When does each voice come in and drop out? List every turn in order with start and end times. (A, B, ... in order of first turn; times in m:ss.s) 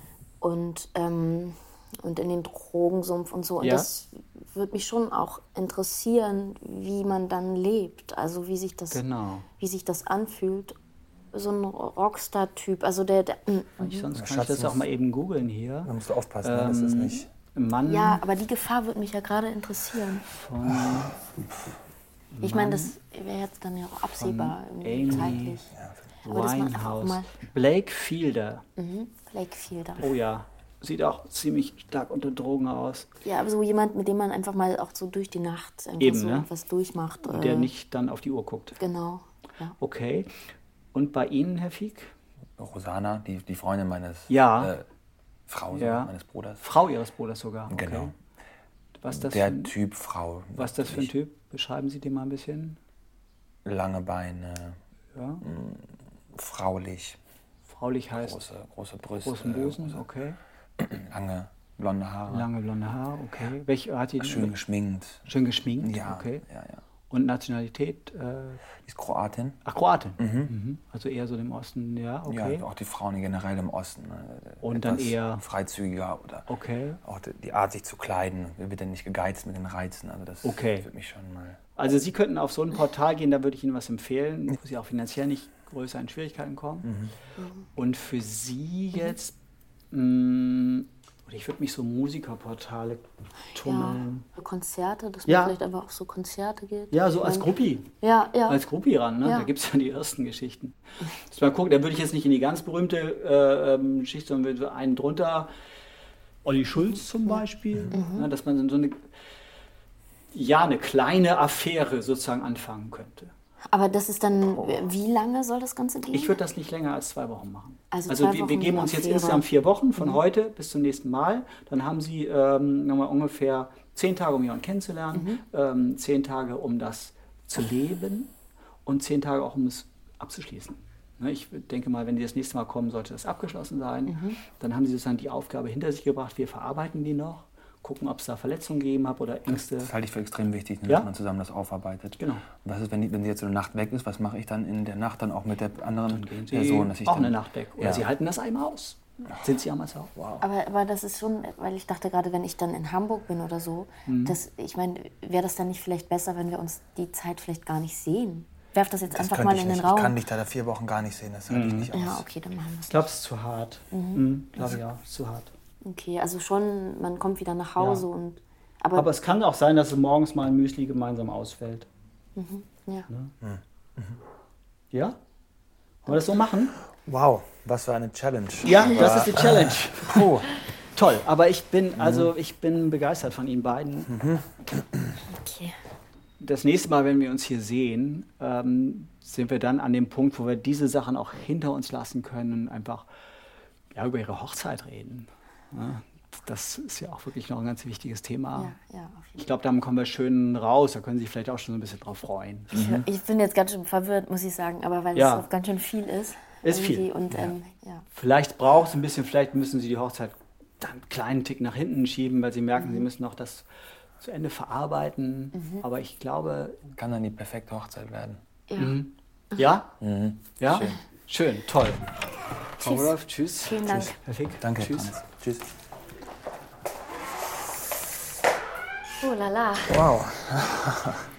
0:00.4-0:09.0 A
0:03.6-0:03.9 B
0:08.9-0:09.4 B
0:09.6-0:10.8 A
0:11.3-0:14.1 A
0:13.8-0:18.2 B
0:14.1-0:14.9 C
0:15.9-0:17.3 C
0:17.9-0:20.3 A
0:20.3-0:21.2 B
0:22.4-0:22.9 B
0:22.4-0:25.7 A
0:24.2-0:25.6 B
0:25.1-0:26.1 C
0:26.2-0:28.6 B
0:26.3-0:27.3 A
0:28.8-0:30.1 A
0:30.0-0:33.1 B
0:33.2-0:37.7 A
0:36.0-0:36.5 B
0:37.2-0:38.8 B
0:38.8-0:39.8 A
0:39.8-0:40.3 B
0:40.9-0:42.1 B
0:42.6-0:44.8 C
0:44.3-0:44.8 B
0:45.5-0:46.6 C
0:45.7-0:48.1 B
0:47.7-0:48.1 C
0:49.0-0:49.7 B
0:49.1-0:51.1 C
0:50.6-0:52.8 B
0:53.6-0:54.8 C
0:55.1-0:55.4 B
0:55.4-0:55.8 C
0:56.4-0:57.2 C
0:57.7-0:58.4 B
0:58.2-1:00.0 C
0:59.2-1:00.4 B
1:00.8-1:02.5 C
1:02.3-1:04.6 B
1:04.2-1:05.3 C
1:05.3-1:06.4 B
1:05.8-1:06.8 C
1:07.1-1:08.7 B
1:08.8-1:09.6 C
1:09.6-1:12.6 B
1:10.2-1:10.5 C
1:12.3-1:16.5 C
1:14.6-1:15.4 B
1:16.5-1:17.0 B
1:17.0-1:21.6 C
1:20.4-1:20.9 B
1:21.8-1:26.9 B
1:26.8-1:27.1 C
1:27.4-1:27.6 A
1:27.8-1:29.4 B
1:29.9-1:34.3 B
1:33.6-1:37.5 A
1:35.3-1:35.6 B
1:36.9-1:37.9 B
1:38.0-1:38.6 A
1:38.5-1:45.5 B
1:39.2-1:39.5 A
1:46.4-1:49.0 B
1:47.9-1:48.3 A
1:50.3-1:53.3 B
1:53.7-1:56.4 A
1:54.5-1:54.8 B
1:56.1-2:08.3 B
1:57.9-1:59.5 A
2:05.1-2:05.4 A
2:08.9-2:19.9 B
2:14.1-2:14.4 A
2:19.8-2:28.0 C
2:22.2-2:22.5 B
2:26.1-2:30.2 B
2:30.2-2:30.4 C
2:30.4-2:40.2 A
2:34.1-2:34.4 B
2:39.1-2:42.2 C
2:41.5-2:41.9 B
2:41.9-2:43.0 A
2:42.9-2:45.5 B
2:43.9-2:44.2 A
2:45.8-2:49.1 A
2:47.8-2:48.1 B
2:49.0-2:51.9 B
2:52.4-2:53.1 A
2:53.4-2:54.2 C
2:54.9-2:55.2 B
2:56.1-2:56.8 B
2:57.0-3:00.5 C
2:58.6-3:00.4 B
3:01.0-3:04.1 B
3:02.0-3:02.3 C
3:04.1-3:04.4 C
3:05.3-3:05.7 A
3:06.4-3:13.1 B
3:13.9-3:18.7 B
3:18.6-3:19.5 A
3:19.4-3:22.8 B
3:22.7-3:28.0 A
3:25.2-3:25.5 B
3:26.6-3:27.1 B
3:28.1-3:33.7 B
3:32.8-3:33.1 A
3:34.2-3:36.8 B
3:37.0-3:38.4 C
3:38.7-3:39.0 A
3:38.8-3:39.9 B
3:40.0-3:41.0 C
3:40.6-3:42.1 B
3:42.8-3:44.2 A
3:42.8-3:45.2 B
3:43.8-3:45.7 C
3:49.2-3:50.0 A
3:49.9-3:51.2 C